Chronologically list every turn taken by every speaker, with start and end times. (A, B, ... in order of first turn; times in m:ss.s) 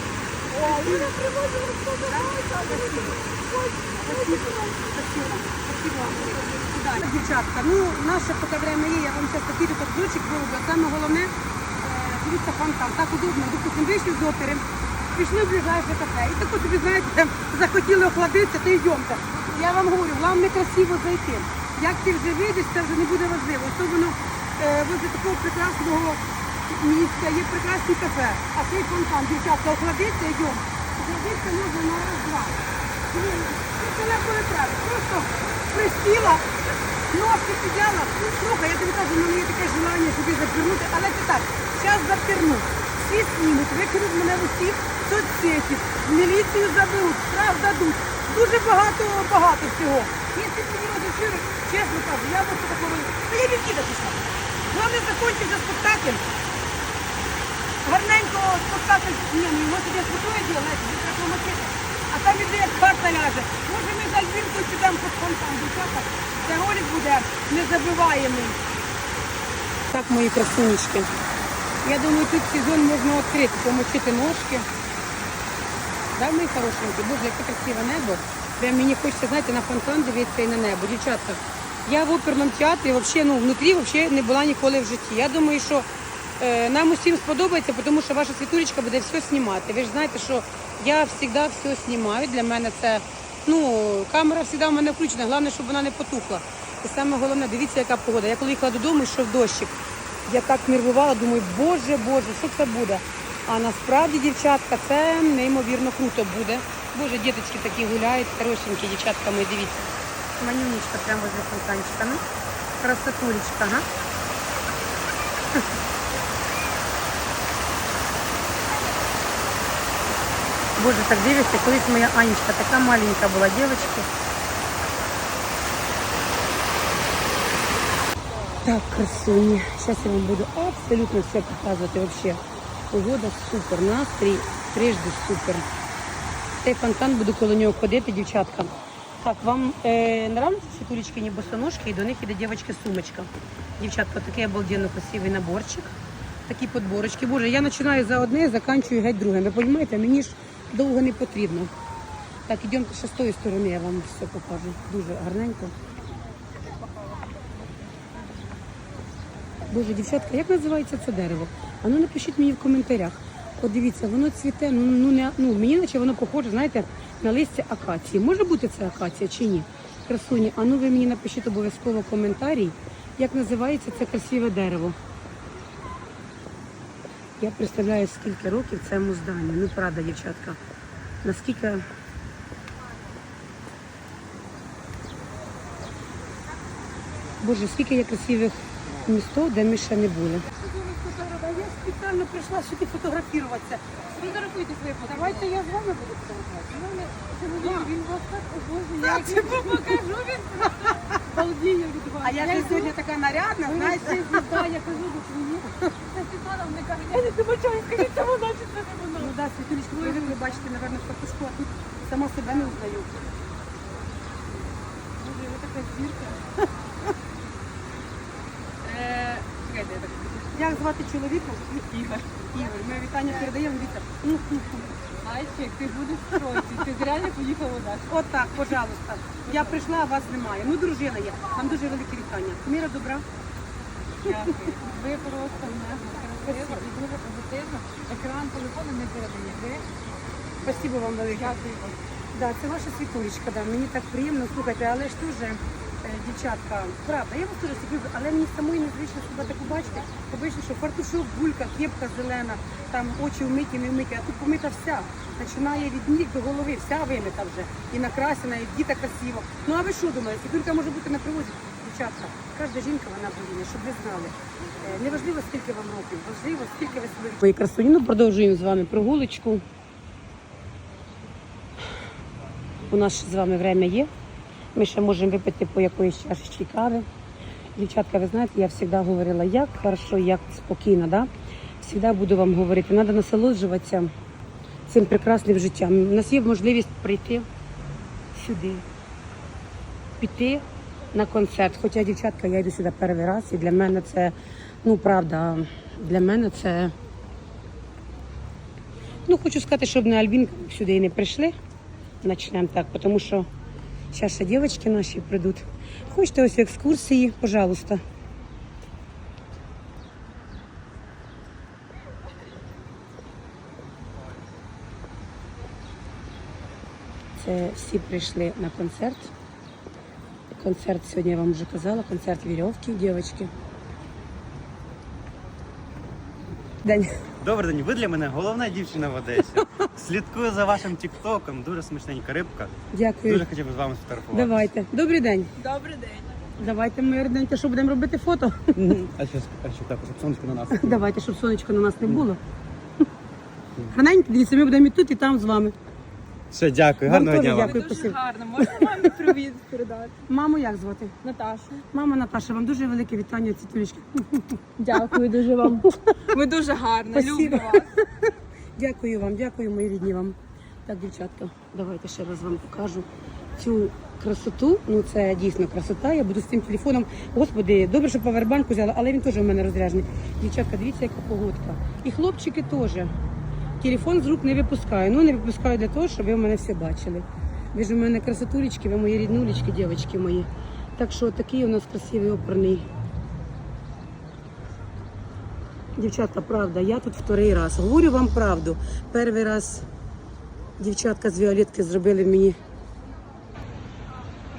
0:00.5-0:04.5 A
0:00.6-0:01.1 B
0:02.0-0:03.2 B
0:04.0-0:32.6 B
0:06.0-0:06.5 A
0:33.1-0:36.5 B
0:37.1-0:56.2 B
0:57.8-1:08.6 B
1:09.9-1:11.1 B
1:11.8-1:14.7 B
1:16.2-1:25.9 B
1:26.4-1:39.7 B
1:40.3-1:52.2 B
1:52.8-1:53.8 B
2:00.8-2:04.1 B
2:08.6-2:12.4 B
2:12.9-2:15.6 B
2:16.6-2:26.0 B
2:26.5-2:31.7 B
2:32.5-2:35.7 B
2:39.7-2:55.0 B
2:57.4-3:00.6 B
3:01.2-3:01.8 B
3:07.4-3:10.5 B
3:10.5-3:11.7 A
3:11.4-3:13.8 B
3:14.1-3:15.6 A
3:15.1-3:16.6 B
3:16.5-3:22.9 A
3:17.6-3:17.9 B
3:19.0-3:20.0 B
3:20.8-3:21.2 B
3:22.2-3:24.7 B
3:23.6-3:30.4 A
3:29.2-3:33.1 B
3:35.2-3:36.5 A
3:38.8-3:40.7 A
3:40.5-3:44.9 B
3:45.2-3:48.7 A
3:48.1-3:53.2 B
3:49.5-3:49.8 A
3:54.2-3:59.8 A
3:54.2-3:54.8 B
3:56.4-3:56.8 B
4:00.6-4:01.6 B
4:01.3-4:02.0 A
4:02.3-4:29.6 B
4:32.9-4:34.1 B
4:34.7-4:37.1 B
4:37.8-4:41.3 B
4:41.8-4:44.1 B
4:44.9-4:47.4 B
4:48.3-4:48.8 B
4:50.2-4:56.9 B
4:59.2-5:01.5 B
5:02.2-5:03.5 B
5:04.1-5:08.0 B
5:17.4-5:19.3 B
5:20.5-5:23.5 B
5:26.8-5:27.1 B
5:27.4-5:32.7 C
5:32.9-5:33.4 B
5:33.2-5:34.7 C
5:34.3-5:35.5 B
5:35.6-5:36.3 A
5:36.6-5:38.8 B
5:38.8-5:41.0 C
5:40.7-5:42.4 B
5:43.9-5:45.7 B
5:46.5-5:47.8 C
5:47.0-5:49.1 B
5:47.6-5:50.1 A
5:50.3-5:51.1 B
5:51.2-5:51.8 A
5:51.9-5:55.0 B
5:54.8-5:57.9 A
5:55.8-5:56.1 B
5:57.1-6:13.1 B
6:13.8-6:22.8 B
6:26.0-6:29.8 B
6:30.8-6:32.6 B